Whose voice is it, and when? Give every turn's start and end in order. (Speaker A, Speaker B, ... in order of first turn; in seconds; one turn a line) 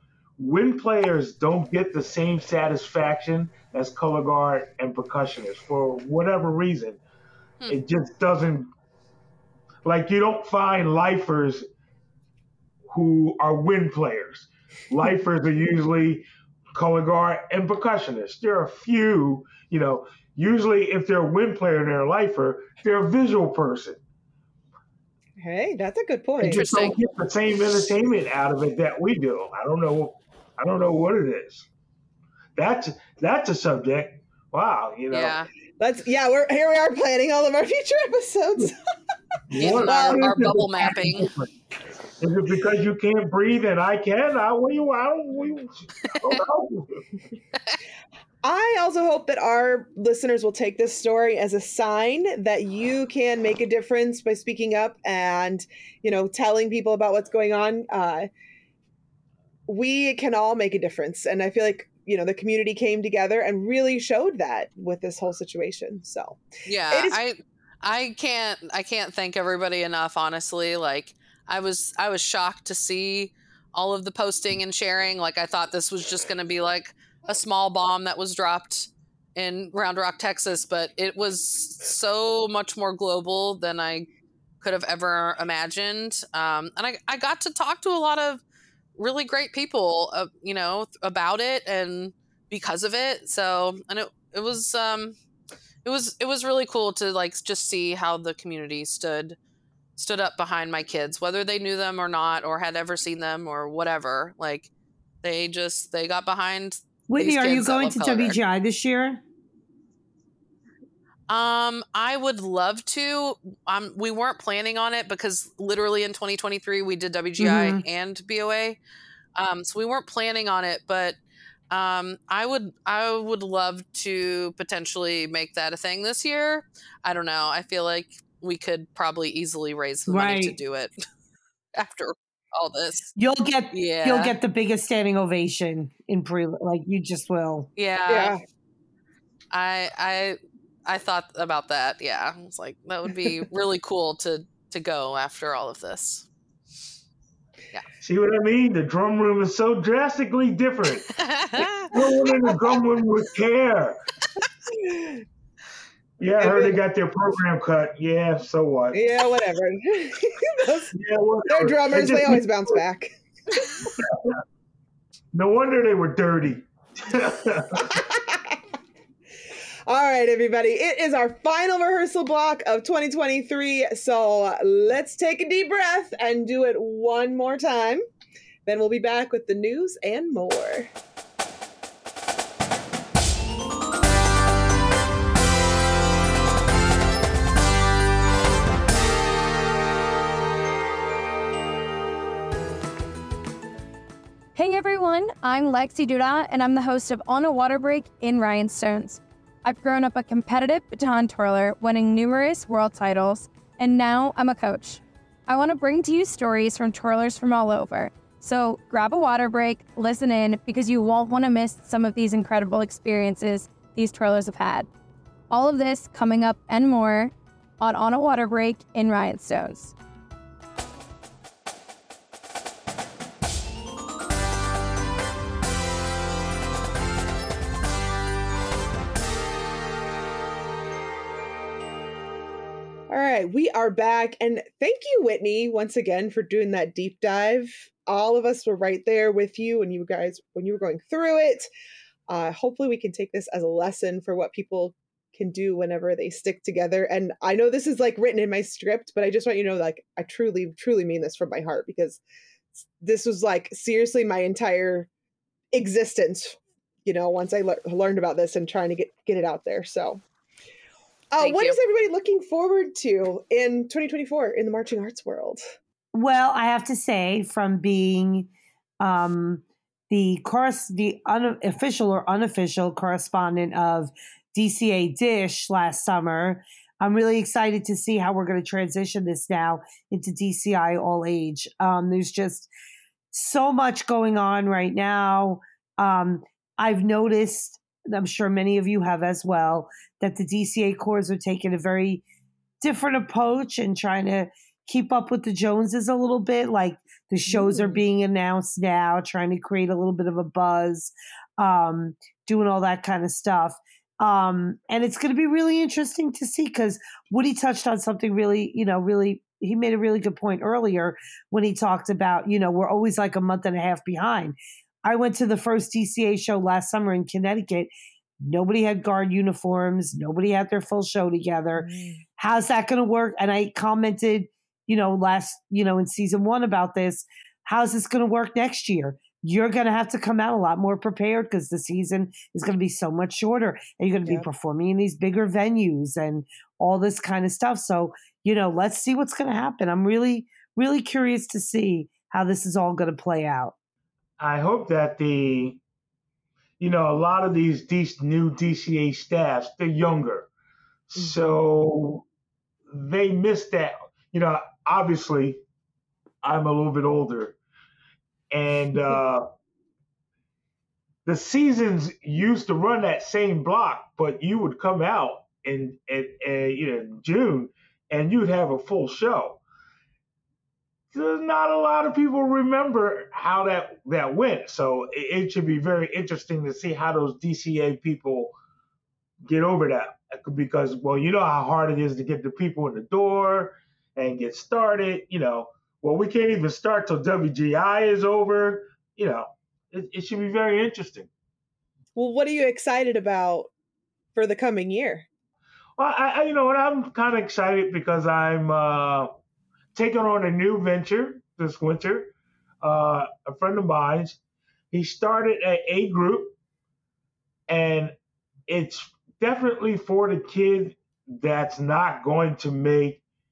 Speaker A: 0.4-7.0
Speaker A: 7.7-8.7
Speaker A: 9.8-11.6
Speaker A: 12.9-24.0
Speaker B: 25.4-26.6
Speaker A: 26.4-31.6
Speaker C: 26.4-27.0
Speaker A: 32.5-35.4
Speaker C: 35.1-35.5
Speaker B: 35.8-38.7
Speaker A: 39.5-41.5
Speaker C: 39.5-41.3
Speaker B: 39.6-40.9
Speaker A: 42.2-47.0
Speaker B: 48.4-58.3
Speaker B: 59.7-67.2
Speaker C: 66.7-84.1
Speaker C: 84.6-88.4
Speaker C: 89.0-95.2
Speaker C: 95.8-99.4
Speaker C: 100.0-104.7
Speaker C: 105.2-108.4
Speaker D: 107.1-109.2
Speaker C: 111.3-118.8
Speaker D: 117.4-117.8
Speaker C: 119.3-121.2
Speaker C: 121.7-130.9
Speaker D: 130.1-130.6
Speaker C: 131.7-133.1
Speaker D: 133.2-137.7
Speaker C: 133.7-134.4
Speaker C: 137.8-138.3
Speaker B: 138.1-138.4
Speaker C: 139.5-146.3
Speaker A: 148.0-151.1
Speaker C: 151.1-151.9
Speaker A: 151.9-154.0
Speaker B: 151.9-152.6
Speaker B: 154.8-155.2
Speaker A: 156.2-159.0
Speaker B: 156.4-156.8
Speaker B: 158.9-160.9
Speaker A: 160.9-162.8
Speaker B: 161.5-163.1
Speaker A: 164.0-164.3
Speaker A: 165.3-168.0
Speaker B: 167.9-168.6
Speaker B: 169.9-178.0
Speaker B: 178.7-180.9
Speaker E: 194.5-214.9
Speaker E: 215.5-219.9
Speaker B: 233.1-241.7
Speaker B: 242.3-252.2
Speaker B: 252.8-255.1
Speaker B: 255.7-260.2
Speaker B: 261.3-265.6
Speaker C: 261.4-261.8
Speaker D: 266.1-268.5
Speaker D: 269.0-282.7
Speaker D: 283.3-292.2
Speaker D: 292.8-317.9
Speaker B: 297.5-298.0
Speaker D: 318.4-343.7
Speaker B: 321.8-322.2
Speaker A: 344.4-345.8
Speaker A: 346.8-350.5
Speaker A: 351.1-352.2
Speaker A: 352.9-355.6
Speaker A: 356.4-357.6
Speaker A: 358.5-359.4
Speaker A: 361.2-369.6
Speaker A: 371.1-378.5
Speaker A: 379.5-391.3
Speaker B: 392.1-393.7
Speaker B: 394.3-395.2
Speaker A: 396.0-399.3
Speaker A: 399.9-404.4
Speaker A: 404.9-406.5
Speaker A: 407.7-408.1
Speaker A: 408.7-413.2